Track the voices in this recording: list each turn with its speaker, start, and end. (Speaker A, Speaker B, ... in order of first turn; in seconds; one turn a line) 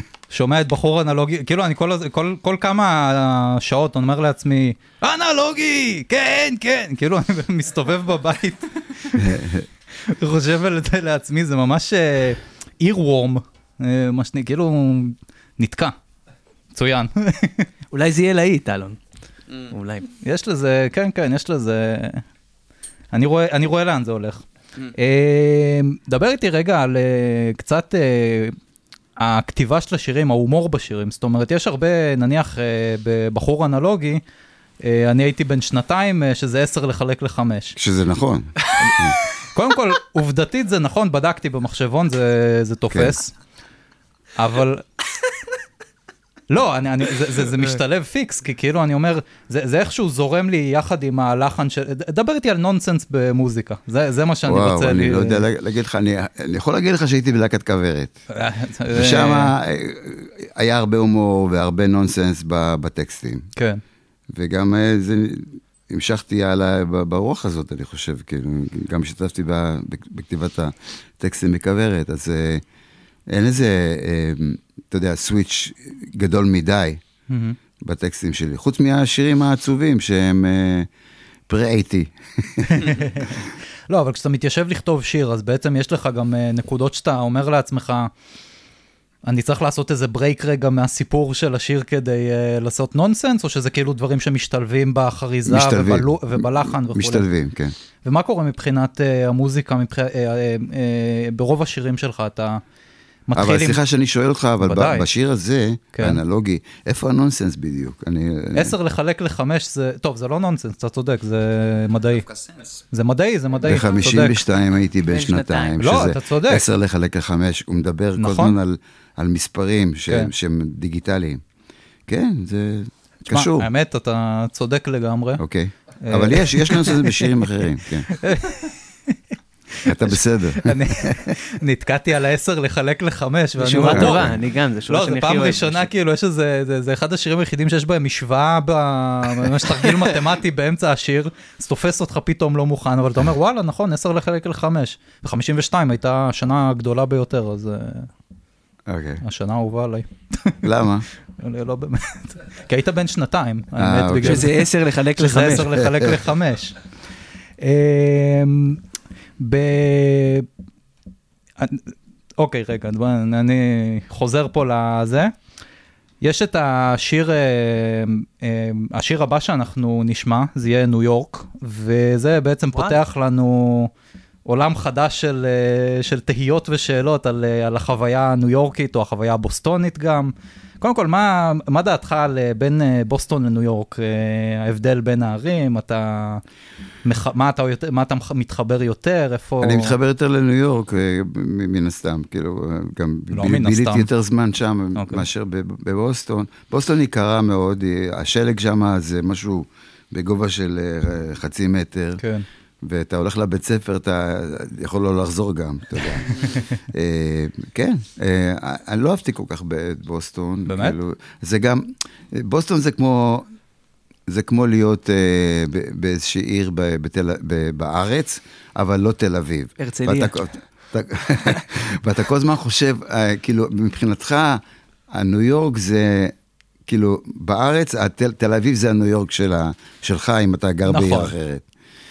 Speaker A: 0.3-9.4
Speaker B: 9.2-9.7
Speaker A: 10.0-15.9
Speaker A: 16.8-17.7
Speaker C: 17.9-19.0
Speaker C: 19.7-20.1
Speaker A: 20.2-22.2
Speaker A: 23.1-24.4
Speaker A: 24.9-28.6
Speaker A: 29.2-34.2
Speaker A: 34.8-37.8
Speaker B: 37.8-39.2
Speaker A: 38.8-43.3
Speaker B: 42.9-43.1
Speaker A: 44.4-44.9
Speaker A: 46.5-55.4
Speaker B: 54.5-58.2
Speaker A: 58.3-59.5
Speaker B: 58.9-63.5
Speaker A: 63.6-63.8
Speaker B: 64.3-72.6
Speaker B: 73.3-77.0
Speaker A: 77.3-77.6
Speaker B: 77.8-80.9
Speaker B: 81.5-83.0
Speaker A: 82.7-88.1
Speaker A: 89.3-97.3
Speaker B: 95.5-97.7
Speaker A: 98.0-102.6
Speaker A: 103.3-103.8
Speaker B: 103.3-108.8
Speaker A: 104.6-105.1
Speaker A: 106.0-106.2
Speaker A: 108.6-112.3
Speaker A: 112.9-114.4
Speaker B: 113.6-121.4
Speaker C: 115.1-115.8
Speaker A: 115.8-116.7
Speaker A: 118.2-118.6
Speaker B: 122.1-123.7
Speaker A: 123.3-125.4
Speaker B: 125.4-128.1
Speaker A: 126.0-127.4
Speaker A: 128.1-129.2
Speaker A: 129.8-134.3
Speaker B: 129.8-131.3
Speaker C: 133.6-135.9
Speaker B: 133.9-134.3
Speaker A: 134.9-148.1
Speaker B: 148.9-149.2
Speaker A: 149.2-150.6
Speaker B: 150.6-151.1
Speaker A: 151.4-154.7
Speaker B: 153.8-154.6
Speaker C: 154.2-155.7
Speaker A: 155.2-156.8
Speaker B: 155.5-156.2
Speaker A: 157.6-158.8
Speaker A: 159.4-160.5
Speaker A: 161.6-165.3
Speaker A: 166.2-173.9
Speaker A: 174.5-186.4
Speaker A: 187.1-190.0
Speaker B: 189.6-202.2
Speaker A: 193.3-194.1
Speaker A: 194.9-195.3
Speaker A: 202.2-202.5
Speaker B: 202.8-213.5
Speaker A: 210.7-211.0
Speaker B: 214.3-224.6
Speaker C: 219.8-220.4
Speaker B: 225.1-226.3
Speaker B: 226.9-231.6
Speaker A: 230.9-231.3